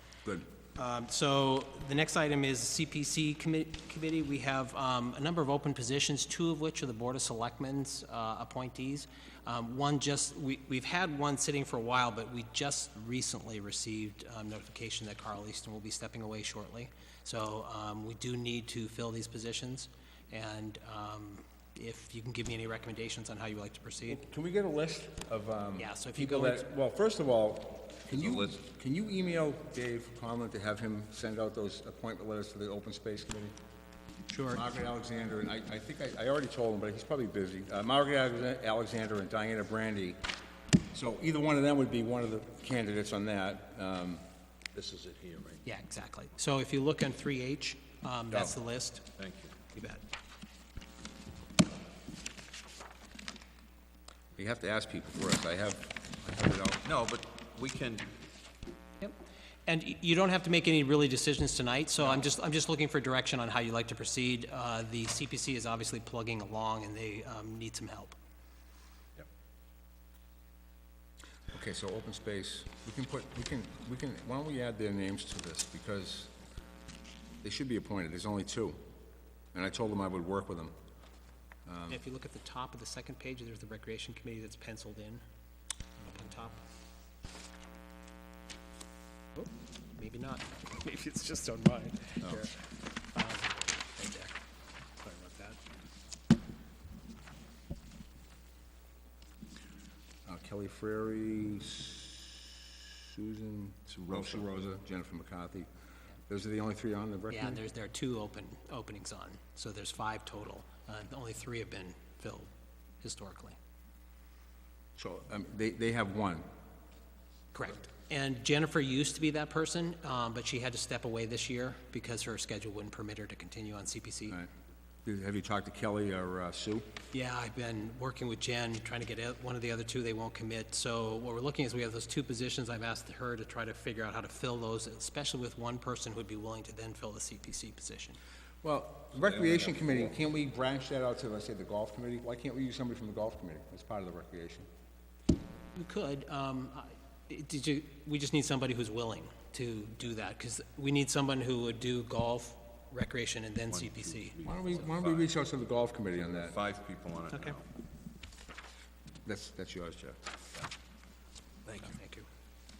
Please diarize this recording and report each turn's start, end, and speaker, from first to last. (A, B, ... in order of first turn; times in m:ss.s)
0:00.8-0:24.2 A
0:24.0-0:33.5 B
0:25.8-0:26.7 A
0:28.1-0:28.6 C
0:34.3-0:34.6 A
0:34.5-0:40.2 B
0:40.9-0:44.2 B
0:44.7-0:45.6 C
0:45.6-0:49.0 A
0:49.2-0:49.5 C
0:49.7-0:50.0 A
0:54.4-0:56.8 B
0:56.8-0:58.1 C
0:59.0-1:08.1 A
1:11.5-1:16.3 B
1:17.4-1:18.8 B
1:19.5-1:20.7 B
1:21.6-1:22.0 B
1:21.9-1:25.2 A
1:26.0-1:26.6 A
1:29.3-1:32.6 A
1:33.1-1:34.3 A
1:35.0-1:35.6 A
1:40.3-1:45.7 B
1:43.9-1:44.4 C
1:46.3-1:47.6 B
1:47.3-1:52.5 A
1:53.0-1:53.6 A
1:55.0-1:56.4 B
1:57.5-2:04.4 A
2:05.0-2:06.9 B
2:07.1-2:18.2 A
2:18.6-2:24.7 B
2:19.2-2:20.0 C
2:25.7-2:34.7 A
2:33.7-2:35.3 C
2:34.4-2:36.5 B
2:36.2-2:37.6 C
2:39.2-2:40.2 B
2:41.7-2:42.3 A